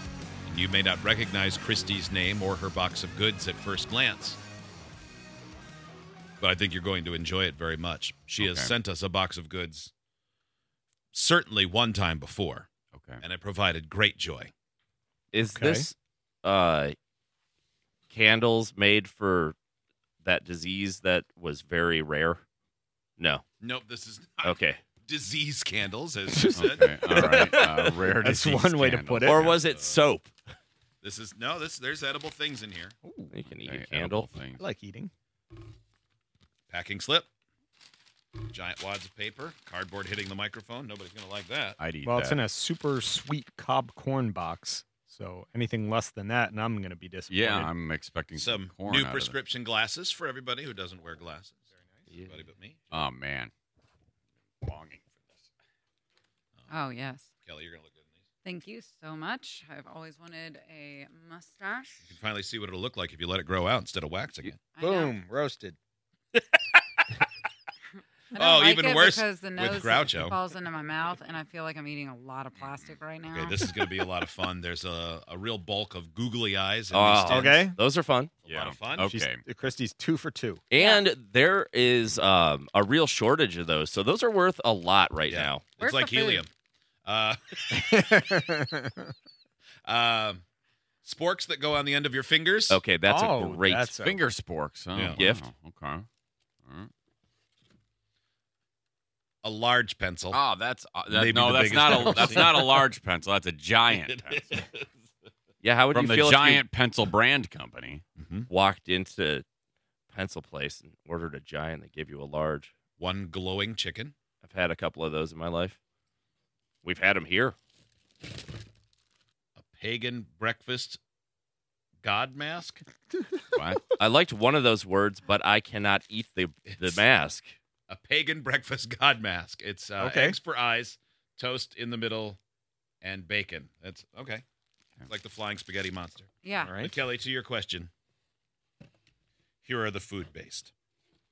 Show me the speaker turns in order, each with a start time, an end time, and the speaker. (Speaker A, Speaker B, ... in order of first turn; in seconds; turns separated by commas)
Speaker A: 0.5-4.4, Speaker A: 6.4-9.9, Speaker B: 8.4-8.7, Speaker A: 11.1-12.7, Speaker B: 12.9-13.2, Speaker A: 13.2-14.5, Speaker C: 15.3-16.9, Speaker D: 15.4-15.8, Speaker C: 18.1-19.5, Speaker C: 20.2-22.4, Speaker C: 23.2-23.4, Speaker A: 23.6-27.1, Speaker C: 24.4-24.8, Speaker D: 26.3-27.5, Speaker B: 26.5-29.6, Speaker C: 27.1-28.0, Speaker D: 28.0-29.5, Speaker C: 29.2-30.4, Speaker A: 29.5-30.0, Speaker A: 31.0-32.9, Speaker D: 33.0-33.4, Speaker C: 33.3-34.3, Speaker B: 33.5-34.6, Speaker D: 34.6-35.1, Speaker A: 36.7-37.3, Speaker A: 38.4-41.8, Speaker B: 41.8-42.4, Speaker D: 42.0-47.7, Speaker B: 47.3-49.3, Speaker A: 48.3-51.6, Speaker C: 52.1-52.4, Speaker A: 52.3-52.8, Speaker B: 52.9-53.5, Speaker B: 54.6-55.5, Speaker E: 56.7-57.2, Speaker A: 57.4-58.0, Speaker E: 58.4-62.0, Speaker A: 62.0-64.6, Speaker E: 64.7-65.1, Speaker D: 64.8-65.8, Speaker A: 68.3-70.3, Speaker E: 68.3-73.5, Speaker A: 73.3-77.6, Speaker C: 76.9-78.4, Speaker D: 77.2-77.8, Speaker A: 78.4-79.2, Speaker B: 78.5-79.4, Speaker D: 79.0-80.6, Speaker C: 80.7-85.6, Speaker E: 80.8-81.0, Speaker A: 85.3-86.5, Speaker E: 85.8-86.4, Speaker A: 87.0-88.2, Speaker D: 87.7-89.1, Speaker A: 89.8-90.4, Speaker A: 91.0-92.8, Speaker C: 92.7-93.9, Speaker D: 93.0-94.3, Speaker B: 94.0-96.0, Speaker A: 94.9-95.2, Speaker C: 95.2-95.4, Speaker A: 99.4-100.4, Speaker B: 100.3-104.6, Speaker A: 101.1-102.5, Speaker D: 101.9-102.9, Speaker A: 103.9-104.9, Speaker C: 105.6-106.6, Speaker B: 105.9-108.0, Speaker A: 108.2-108.5, Speaker C: 108.5-109.4, Speaker C: 110.1-112.7, Speaker A: 113.0-114.1, Speaker C: 114.4-115.8, Speaker C: 116.8-117.5, Speaker A: 119.6-121.0, Speaker A: 122.0-122.8, Speaker B: 123.5-123.8, Speaker C: 124.0-127.5, Speaker A: 126.7-127.0, Speaker A: 127.9-132.4, Speaker D: 130.0-130.4, Speaker A: 133.0-134.4, Speaker A: 135.1-137.9, Speaker E: 136.4-136.7, Speaker D: 136.6-136.9, Speaker A: 139.6-140.7